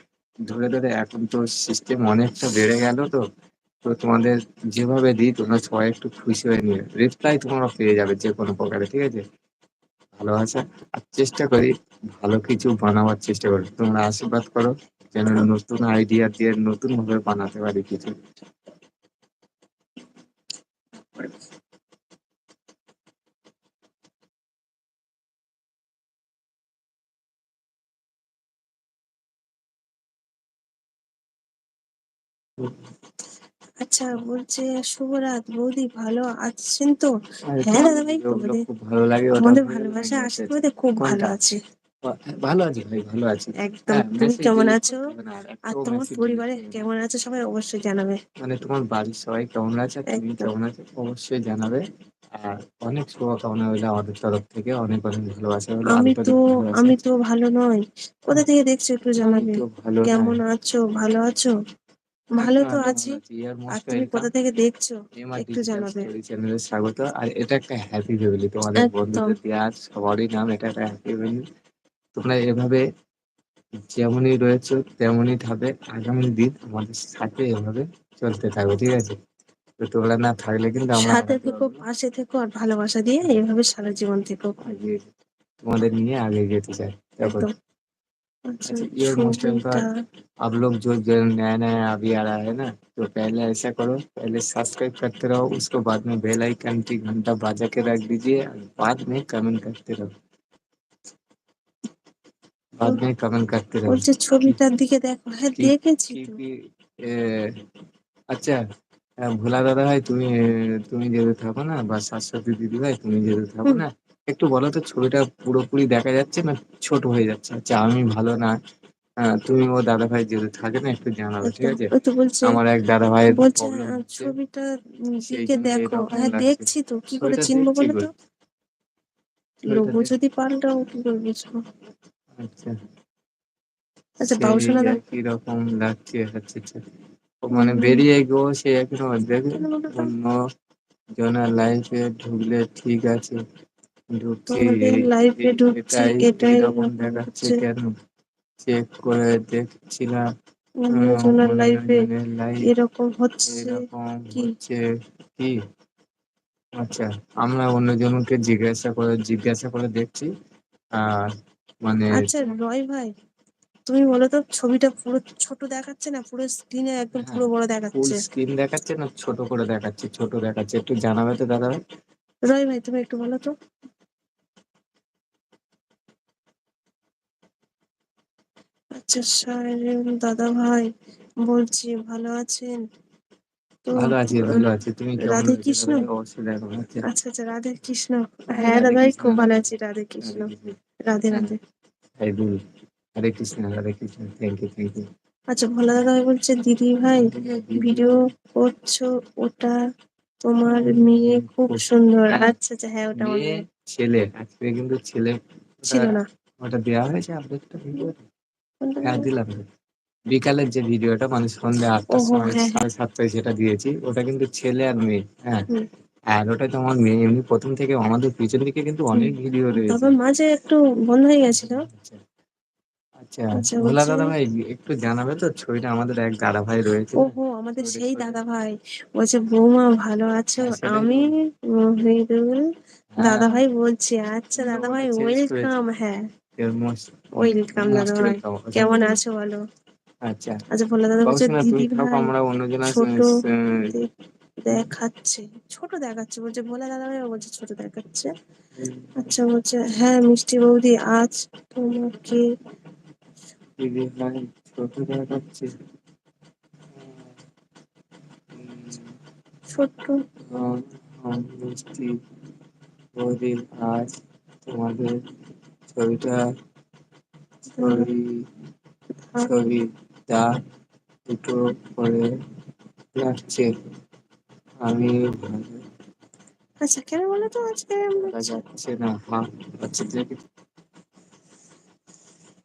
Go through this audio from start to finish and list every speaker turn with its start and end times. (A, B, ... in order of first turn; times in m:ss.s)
0:00.5-0:03.2 A
0:03.8-0:09.2 A
0:10.2-0:18.2 A
0:33.8-0:37.1 B
0:37.5-0:41.3 A
0:37.7-0:38.6 B
0:39.4-0:41.6 B
0:42.0-0:46.8 A
0:43.6-0:45.0 B
0:45.7-0:48.2 B
0:48.4-0:51.8 A
0:50.1-0:50.5 B
0:52.4-0:57.0 A
0:55.9-1:01.5 B
0:59.2-1:00.4 A
1:02.4-1:03.2 B
1:02.4-1:04.3 A
1:03.7-1:06.1 B
1:05.2-1:11.4 A
1:08.8-1:09.4 B
1:12.2-1:12.8 A
1:13.9-1:19.1 A
1:19.8-1:21.8 A
1:21.0-1:24.6 B
1:24.6-1:25.0 A
1:25.6-1:27.5 A
1:28.5-1:29.9 B
1:28.6-1:29.8 A
1:30.5-1:40.1 A
1:42.8-1:44.6 A
1:43.9-1:46.4 B
1:45.6-1:46.5 A
1:47.1-1:47.5 A
1:49.3-1:50.3 A
1:50.9-1:58.6 A
1:59.2-2:01.9 A
2:01.4-2:02.6 B
2:02.4-2:04.3 A
2:03.3-2:04.6 B
2:05.3-2:08.1 B
2:05.3-2:06.7 A
2:07.2-2:08.1 A
2:09.7-2:11.6 B
2:09.7-2:10.1 A
2:12.4-2:12.7 A
2:14.2-2:15.0 B
2:14.4-2:16.8 A
2:17.4-2:20.4 A
2:17.6-2:18.0 B
2:19.6-2:20.1 B
2:21.2-2:23.4 A
2:24.2-2:27.9 A
2:24.5-2:27.6 B
2:28.6-2:30.2 A
2:30.8-2:32.0 B
2:30.9-2:32.7 A
2:32.7-2:33.8 B
2:33.5-2:34.8 A
2:36.8-2:40.3 A
2:41.0-2:41.3 A
2:41.8-2:42.5 A
2:42.2-2:43.1 B
2:43.9-2:48.2 B
2:47.2-2:51.8 A
2:52.5-2:53.5 B
2:59.0-3:00.9 B
3:01.5-3:02.8 B
3:03.9-3:04.6 B
3:04.0-3:07.1 A
3:05.2-3:06.0 B
3:07.1-3:10.5 B
3:08.6-3:09.6 A
3:10.2-3:10.8 A
3:11.1-3:11.6 B
3:12.2-3:12.6 A
3:13.2-3:15.0 A
3:15.5-3:17.2 B
3:17.2-3:18.2 A
3:17.8-3:19.8 B
3:20.5-3:23.6 B
3:20.7-3:22.5 A
3:23.2-3:28.2 A
3:25.9-3:26.2 B
3:28.8-3:29.2 B
3:29.0-3:29.6 A
3:30.3-3:35.7 A
3:32.2-3:32.7 B
3:36.4-3:40.2 A
3:39.2-3:41.8 B
3:41.5-3:42.2 A
3:43.2-3:48.4 A
3:43.6-3:44.3 B
3:47.2-3:51.3 B
3:50.6-3:51.3 A
3:51.8-3:52.6 B
3:53.1-3:53.6 A
3:53.2-3:56.2 B
3:54.6-3:55.7 A
3:56.6-3:59.2 A
3:57.4-3:59.6 B
4:00.3-4:00.6 A
4:00.7-4:02.3 B
4:01.3-4:03.9 A
4:02.9-4:03.3 B
4:04.6-4:08.3 B
4:08.8-4:09.3 A
4:09.2-4:12.4 B
4:13.8-4:15.7 A
4:17.0-4:17.3 A
4:18.6-4:19.1 A
4:19.7-4:20.2 B
4:20.5-4:22.1 A
4:23.2-4:24.1 A
4:24.7-4:25.1 A
4:25.9-4:26.4 A
4:27.7-4:28.2 A
4:27.8-4:28.1 B
4:29.4-4:30.5 A
4:31.3-4:32.3 A
4:33.2-4:33.7 A
4:34.8-4:35.8 A
4:36.8-4:38.6 B
4:38.3-4:40.4 A